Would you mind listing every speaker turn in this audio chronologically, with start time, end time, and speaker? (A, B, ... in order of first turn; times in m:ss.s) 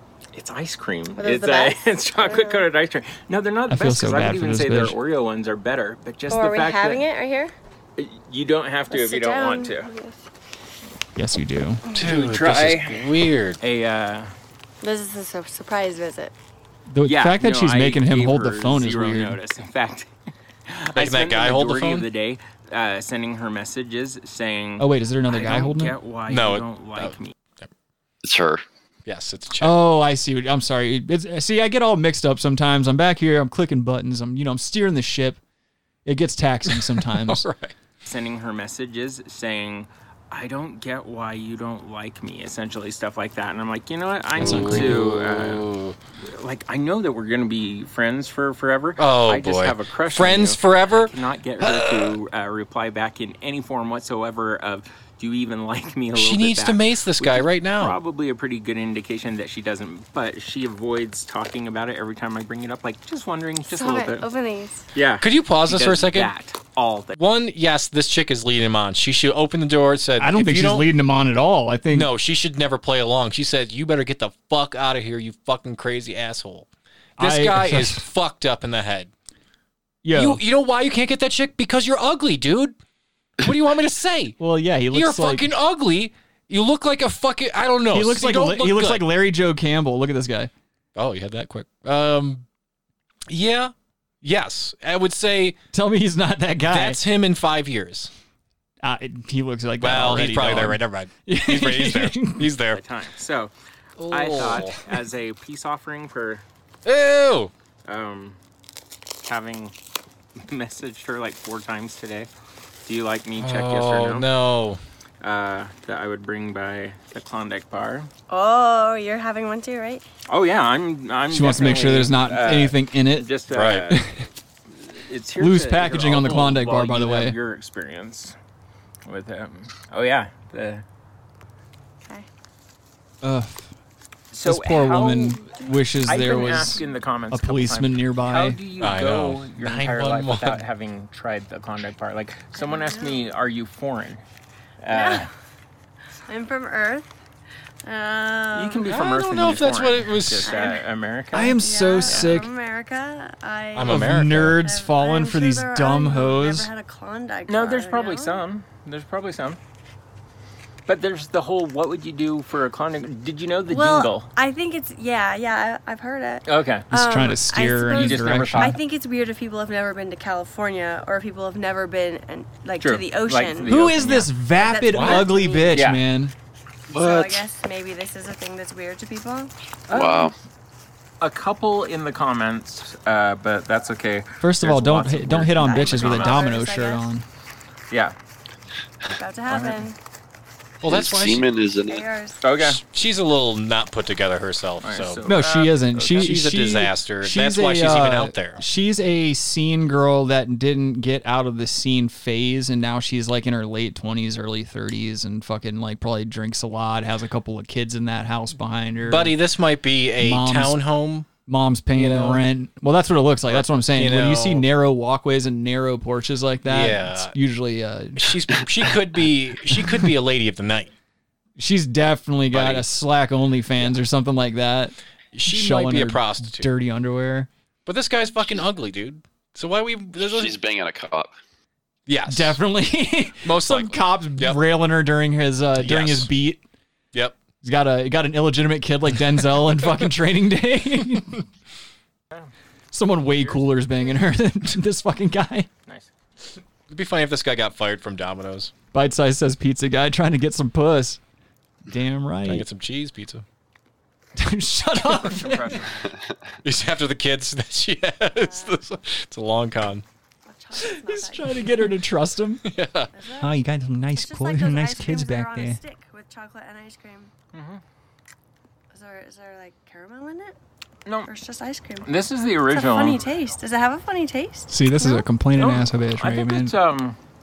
0:00.3-0:07.0 A
0:01.1-0:02.7 B
0:03.7-0:05.0 C
0:06.3-0:07.5 B
0:08.0-0:09.9 A
0:08.9-0:10.3 B
0:11.2-0:11.8 C
0:12.0-0:13.6 D
0:12.0-0:13.0 A
0:13.6-0:14.3 A
0:14.8-0:16.3 B
0:16.9-0:19.4 C
0:17.0-0:20.1 A
0:20.7-0:27.3 A
0:20.9-0:22.1 D
0:24.8-0:26.0 C
0:26.3-0:27.7 D
0:28.2-0:28.6 E
0:29.0-0:29.8 D
0:29.6-0:35.4 C
0:36.0-0:37.4 C
0:36.7-0:37.7 D
0:38.0-0:45.7 A
0:44.4-0:45.1 C
0:44.4-0:46.0 D
0:46.2-1:04.3 A
0:49.0-0:52.2 D
0:56.1-0:58.0 D
1:03.7-1:04.9 B
1:05.0-1:07.2 A
1:05.2-1:06.3 D
1:07.2-1:10.9 D
1:10.2-1:12.1 C
1:11.9-1:16.7 D
1:17.2-1:18.0 C
1:17.2-1:19.1 D
1:20.0-1:20.4 C
1:20.1-1:22.8 D
1:23.4-1:24.4 D
1:24.4-1:25.5 C
1:24.9-1:29.0 D
1:27.9-1:30.5 C
1:31.0-1:32.4 D
1:33.3-1:35.6 D
1:35.7-1:37.0 C
1:36.7-1:38.1 D
1:38.8-1:42.5 C
1:39.8-1:42.8 D
1:42.7-1:43.5 A
1:44.0-1:44.8 D
1:44.1-1:46.4 A
1:46.9-1:47.5 D
1:47.8-1:48.4 A
1:49.2-1:49.7 A
1:50.4-1:52.3 A
1:52.8-1:54.3 A
1:53.4-1:54.8 D
1:55.2-1:58.1 A
1:58.3-2:00.0 B
2:00.3-2:04.0 A
2:01.3-2:03.3 C
2:03.5-2:03.9 D
2:03.9-2:04.2 C
2:04.7-2:08.4 A
2:05.4-2:07.4 C
2:09.0-2:10.8 A
2:13.2-2:13.7 C
2:14.3-2:24.2 A
2:14.4-2:18.6 C
2:18.8-2:20.6 D
2:22.5-2:23.2 B
2:24.8-2:25.3 A
2:24.9-2:25.3 B
2:26.3-2:27.1 B
2:27.8-2:28.9 B
2:28.5-2:32.4 A
2:28.9-2:30.5 D
2:30.4-2:30.9 B
2:31.3-2:32.5 C
2:31.4-2:38.4 B
2:33.7-2:34.6 D
2:33.9-2:36.7 C
2:37.5-2:39.6 A
2:40.9-2:44.3 A
2:43.7-2:53.8 B
2:46.4-2:46.9 A
2:46.9-2:48.8 C
2:47.9-2:48.8 A
2:52.8-2:54.3 A
2:53.7-2:56.3 C
2:54.5-2:55.8 B
2:54.9-2:56.0 A
2:57.0-2:59.5 B
2:57.0-2:57.3 E
2:59.9-3:00.3 A
2:59.9-3:00.3 E
3:01.2-3:06.5 A
3:04.4-3:07.2 C
3:05.5-3:07.1 B
3:09.1-3:10.0 B
3:10.8-3:11.5 D
3:10.8-3:12.1 E
3:11.9-3:12.4 B
3:12.4-3:12.8 A
3:12.6-3:15.2 D
3:14.8-3:16.4 A
3:15.3-3:29.4 C
3:16.1-3:18.6 D
3:29.0-3:31.3 D
3:30.2-3:30.8 C
3:31.4-3:38.3 C
3:32.0-3:32.4 D
3:33.5-3:34.6 D
3:36.7-3:37.3 D
3:38.2-3:40.9 D
3:41.6-3:45.0 C
3:42.5-3:42.8 D
3:45.3-3:46.7 D
3:45.4-3:47.5 C
3:47.9-3:50.6 D
3:50.2-3:51.3 E
3:52.1-3:52.6 D
3:52.3-3:56.6 C
3:53.4-3:54.6 D
3:55.8-3:56.3 D
3:57.1-3:57.4 D
3:57.6-4:01.4 C
4:02.9-4:05.7 C
4:03.3-4:03.6 A
4:06.9-4:08.7 D
4:08.9-4:11.2 C
4:11.9-4:12.6 C
4:12.4-4:13.4 D
4:14.4-4:15.8 C
4:15.0-4:16.0 A
4:16.6-4:20.0 D
4:18.4-4:18.8 B
4:20.4-4:21.9 B
4:20.8-4:22.6 C
4:22.6-4:23.1 D
4:23.1-4:23.6 B
4:23.4-4:25.8 C
4:24.1-4:27.3 B
4:27.5-4:27.8 A
4:28.9-4:30.6 B
4:31.3-4:32.1 B
4:32.0-4:33.3 A
4:32.7-4:35.3 B
4:34.7-4:36.7 C
4:35.6-4:37.2 A